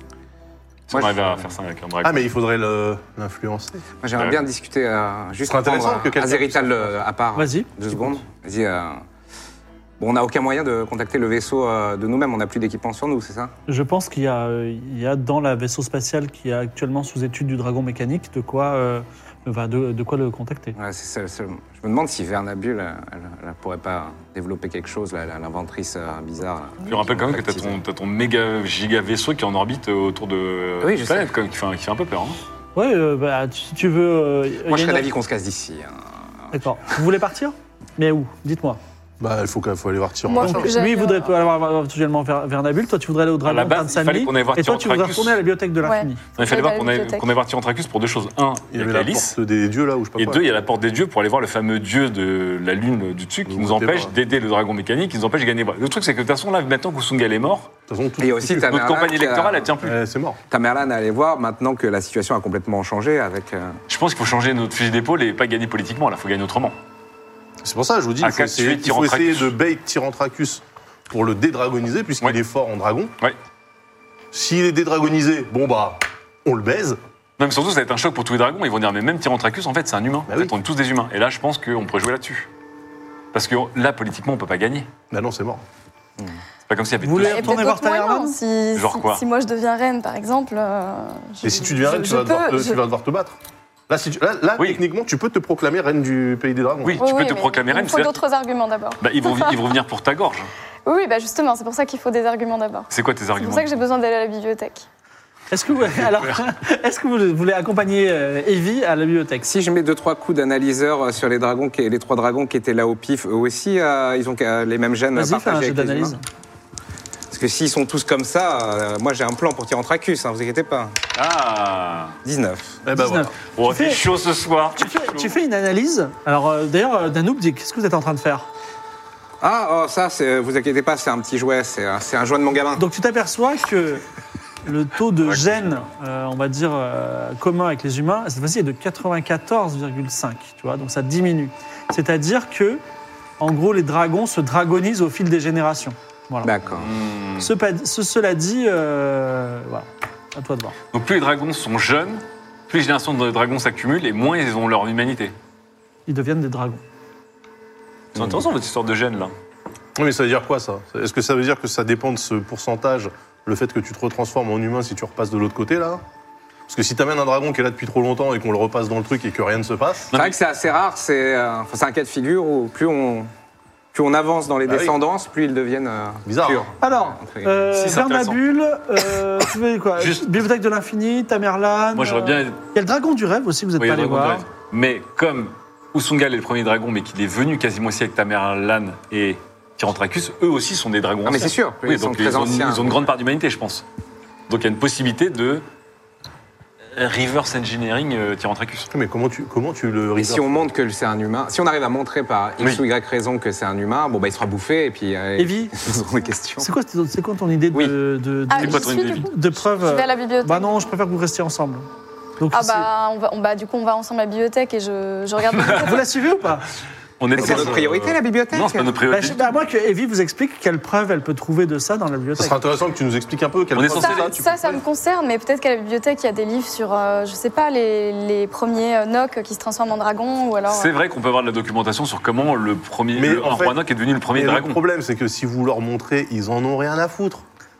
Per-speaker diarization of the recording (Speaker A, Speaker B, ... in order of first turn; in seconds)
Speaker A: 0.9-2.2, 4.1-4.4, 26.9-32.4, 43.4-45.4, 46.4-49.3, 50.2-57.7, 58.6-60.0, 63.9-66.7, 68.2-69.5, 77.4-82.5, 83.3-84.9, 86.7-87.6, 88.7-89.2, 94.6-94.8, 96.8-98.2, 99.0-100.5, 102.9-103.7, 105.8-106.4, 121.1-122.2, 123.5-125.3, 135.3-135.8, 146.7-147.5, 150.9-155.3, 158.1-159.3, 170.1-170.4, 177.7-178.4, 181.9-182.6, 183.8-193.8, 194.5-195.6, 196.9-198.9, 208.6-209.3, 215.5-216.0, 217.2-219.5, 223.7-224.3, 230.7-234.8
Speaker B: 0.9-1.5, 4.0-9.0, 10.0-13.5, 20.8-27.8, 30.8-31.3, 34.6-36.0, 58.2-59.7, 60.5-63.8, 109.4-116.2, 117.3-121.0, 122.2-122.8, 129.4-132.8, 146.4-146.9, 170.1-173.3, 173.9-177.6, 191.2-193.1, 200.1-206.7, 217.4-218.9
Speaker C: 2.0-3.8, 5.5-6.9, 39.2-40.7, 48.7-50.4, 53.5-54.1, 57.9-58.7, 59.8-60.4, 67.6-73.1, 74.3-77.0, 85.1-85.6, 91.4-93.4, 93.9-97.0, 122.8-123.3, 159.9-166.0, 166.7-170.1, 174.7-174.9, 176.2-176.7, 198.9-200.5, 217.4-217.9, 222.3-224.8, 233.1-233.8, 234.3-237.4
Speaker D: 7.3-7.7, 13.7-20.8, 32.8-35.1, 36.5-38.8, 40.3-46.2, 87.0-88.4, 105.5-109.5, 115.1-116.2, 122.9-124.0, 124.8-128.5, 132.8-134.0, 134.6-142.8, 143.4-146.5, 147.4-150.8, 156.1-156.8, 176.8-184.4, 205.4-205.7, 206.6-211.8, 212.4-212.9, 215.7-216.6, 219.1-222.6
Speaker E: 40.2-41.3, 45.8-47.2, 87.2-92.8, 97.0-99.5, 100.8-104.8, 208.5-210.9, 212.5-216.1, 223.9-230.9